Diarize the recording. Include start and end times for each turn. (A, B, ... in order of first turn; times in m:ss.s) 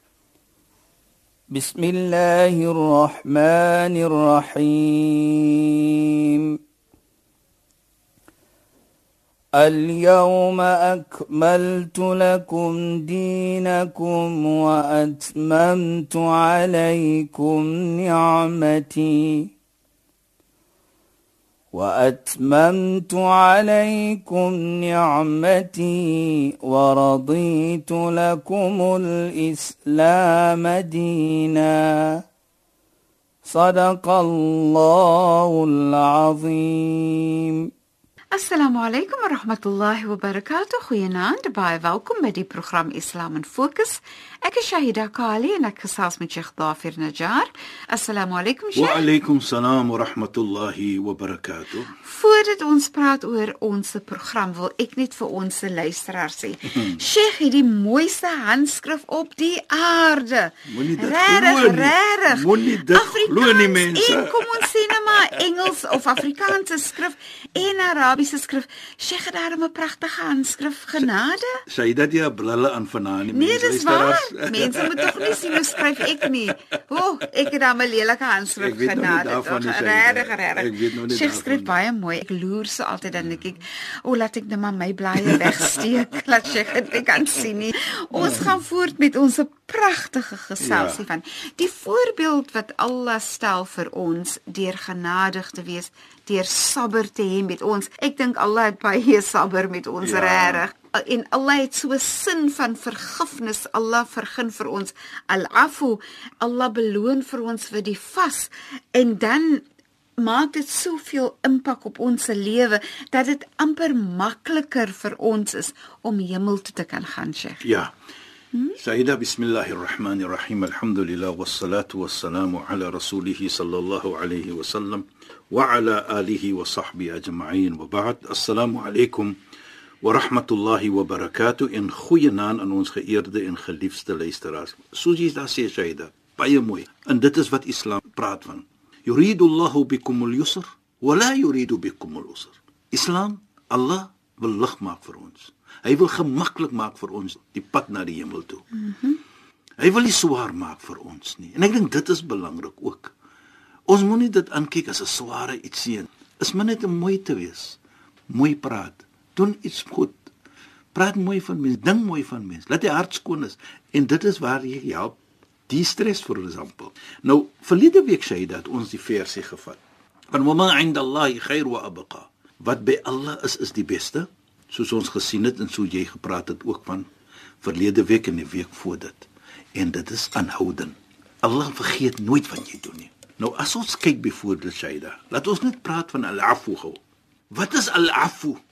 0:01.5-0:06.6 A
0:09.6-0:19.5 A
0:21.7-0:32.2 A
0:33.4-0:37.7 A
0:38.3-0:49.0 B
0:48.8-0:51.9 C
0:52.0-1:11.5 B
1:00.7-1:05.4 C
1:11.7-1:16.5 C
1:13.3-1:49.6 B
1:18.6-1:21.8 C
1:25.2-1:25.9 C
1:28.1-1:28.5 C
1:30.6-1:31.0 C
1:40.0-1:40.6 C
1:50.2-1:57.6 B
1:57.6-1:57.9 C
1:58.8-2:09.4 C
2:10.0-2:28.6 C
2:28.8-2:29.2 B
2:29.8-2:33.1 C
2:33.9-2:37.8 C
2:38.3-2:40.2 C
2:40.9-2:45.2 C
2:45.7-2:49.8 C
2:50.3-2:57.1 C
2:57.6-3:07.0 C
3:07.5-3:08.6 C